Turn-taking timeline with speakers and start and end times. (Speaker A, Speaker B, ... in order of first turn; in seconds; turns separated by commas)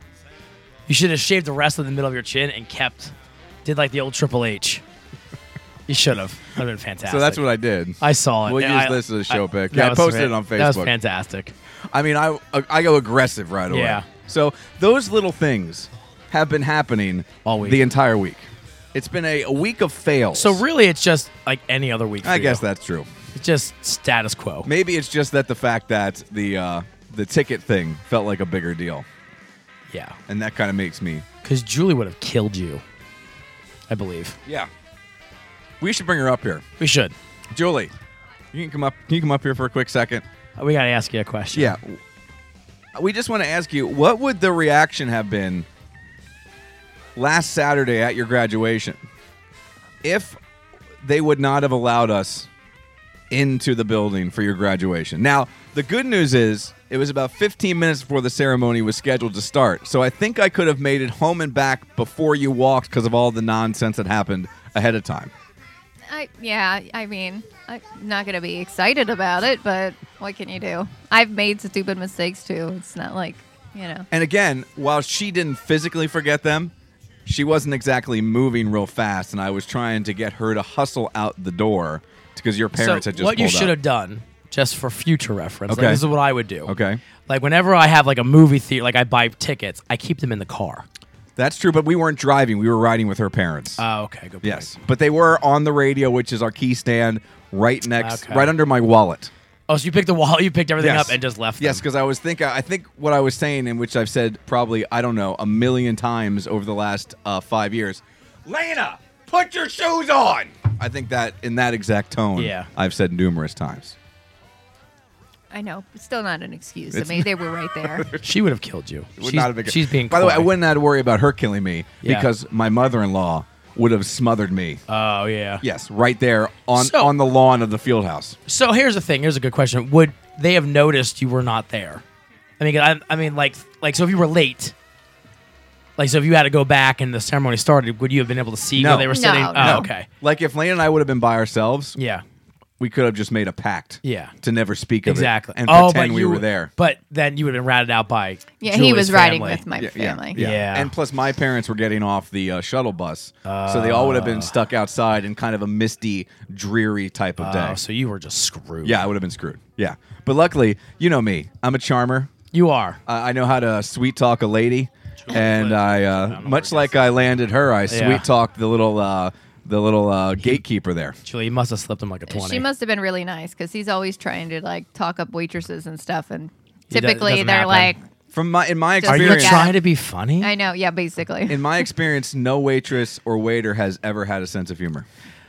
Speaker A: 0.9-3.1, Speaker A: 3.6-4.8, Speaker A: 5.9-7.5, Speaker B: 7.0-10.9, Speaker A: 8.0-11.6, Speaker B: 11.9-20.6, Speaker A: 13.7-14.1, Speaker A: 17.4-17.8, Speaker A: 20.3-22.6, Speaker B: 22.2-23.1, Speaker A: 23.4-24.7, Speaker B: 24.6-29.1, Speaker A: 29.9-30.2, Speaker B: 30.3-31.2, Speaker A: 31.4-32.8, Speaker A: 33.9-34.4, Speaker B: 34.5-34.7, Speaker B: 35.8-36.6, Speaker A: 36.8-37.1, Speaker B: 37.5-37.9, Speaker B: 38.5-40.2, Speaker A: 40.6-41.8, Speaker B: 41.5-42.0, Speaker B: 43.0-45.7, Speaker B: 47.1-49.0, Speaker B: 50.0-50.4, Speaker B: 51.0-52.5, Speaker B: 53.3-65.3, Speaker C: 66.1-74.1, Speaker B: 74.1-76.7, Speaker B: 77.3-83.8, Speaker A: 82.8-86.7, Speaker B: 85.7-86.0, Speaker B: 86.7-87.0, Speaker A: 87.3-90.8, Speaker B: 91.4-93.8, Speaker A: 93.8-94.8, Speaker B: 94.4-99.3, Speaker A: 98.0-98.5, Speaker A: 99.7-101.8, Speaker B: 100.8-114.0, Speaker A: 112.4-112.7, Speaker C: 115.5-118.1, Speaker B: 116.9-118.3, Speaker A: 118.2-120.5, Speaker B: 119.2-124.8, Speaker A: 122.0-122.3, Speaker A: 124.9-125.6, Speaker B: 125.6-128.4, Speaker A: 126.8-127.1, Speaker A: 128.5-132.0, Speaker A: 132.6-134.7, Speaker A: 136.0-140.1, Speaker B: 138.8-142.0, Speaker C: 139.1-139.9, Speaker A: 142.0-142.2, Speaker B: 142.8-146.7, Speaker A: 144.0-144.3, Speaker A: 145.1-149.7, Speaker C: 148.6-150.4, Speaker B: 149.8-157.8, Speaker A: 150.3-150.9, Speaker A: 153.4-154.5, Speaker A: 157.4-159.1, Speaker B: 158.8-162.3, Speaker A: 162.5-163.0, Speaker B: 163.1-171.2, Speaker A: 165.2-167.0, Speaker A: 167.9-168.2, Speaker A: 171.3-172.7, Speaker C: 172.3-178.0, Speaker A: 176.9-177.9, Speaker B: 178.3-179.7, Speaker C: 179.0-179.8, Speaker A: 179.1-180.5, Speaker C: 180.4-181.8, Speaker B: 181.5-185.1